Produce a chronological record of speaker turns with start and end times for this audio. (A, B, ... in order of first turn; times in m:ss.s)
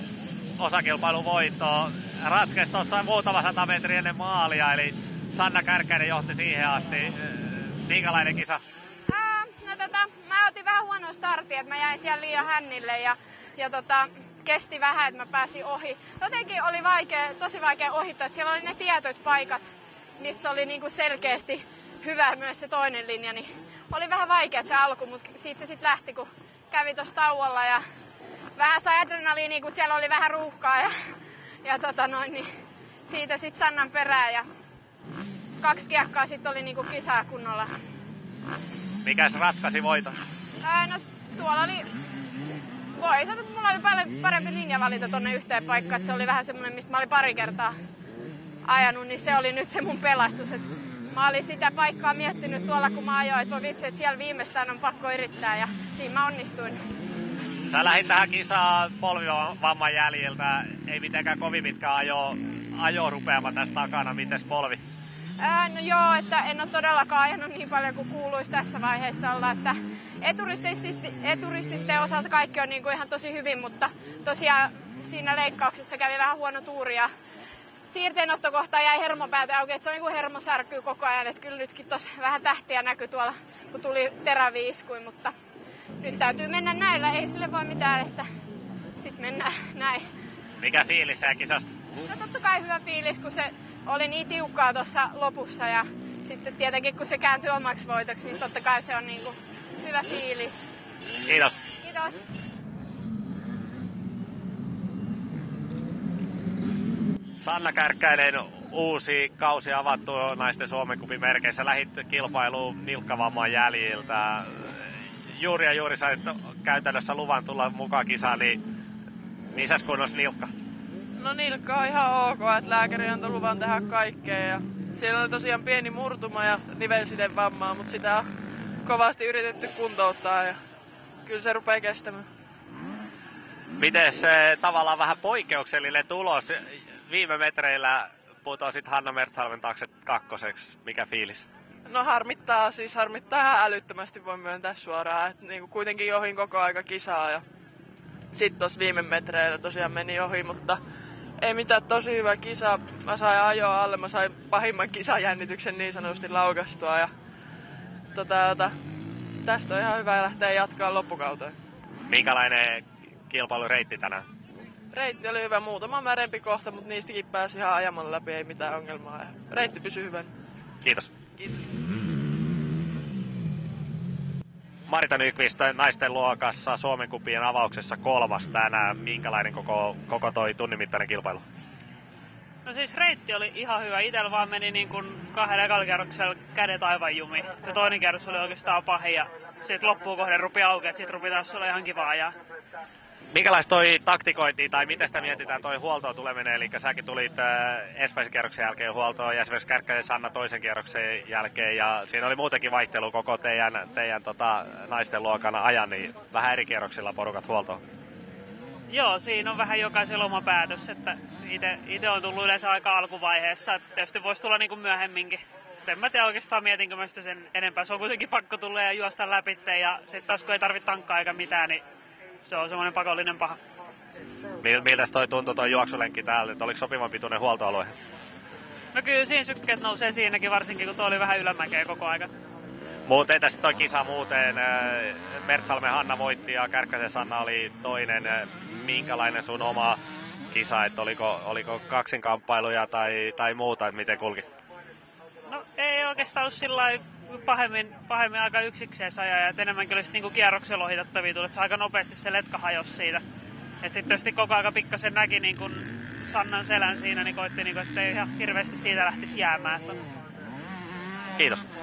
0:00.6-0:08.6 A
0:09.1-0:19.7 B
0:20.2-0:27.8 B
0:28.6-0:30.9 B
0:31.6-0:32.5 B
0:33.0-0:34.5 B
0:35.6-0:37.7 B
0:39.0-0:40.2 A
0:40.6-0:41.9 B
0:42.9-0:47.8 B
0:48.6-0:56.8 B
0:57.7-1:04.8 A
1:05.4-1:17.1 B
1:17.9-1:25.3 B
1:26.0-1:28.3 B
1:28.9-1:30.0 B
1:30.6-1:31.6 A
1:32.1-1:40.6 B
1:41.3-1:41.6 A
1:41.8-1:42.2 B
1:47.4-1:58.6 A
1:59.5-2:00.5 A
2:01.2-2:08.2 C
2:08.8-2:10.6 C
2:11.2-2:12.2 C
2:13.8-2:21.4 A
2:21.9-2:27.4 C
2:28.3-2:30.8 C
2:31.4-2:37.1 C
2:38.1-2:38.7 C
2:39.4-2:41.6 C
2:42.1-2:44.2 A
2:44.9-2:50.3 C
2:50.8-2:51.1 A
2:54.9-3:01.4 A
3:02.6-3:12.3 D
3:13.3-3:27.8 A
3:28.9-3:41.8 D
3:42.4-3:43.6 D
3:44.6-3:47.9 A
3:48.9-3:52.3 D
3:53.0-4:04.4 A
4:05.5-4:13.2 D
4:13.8-4:20.0 D
4:21.4-4:21.6 A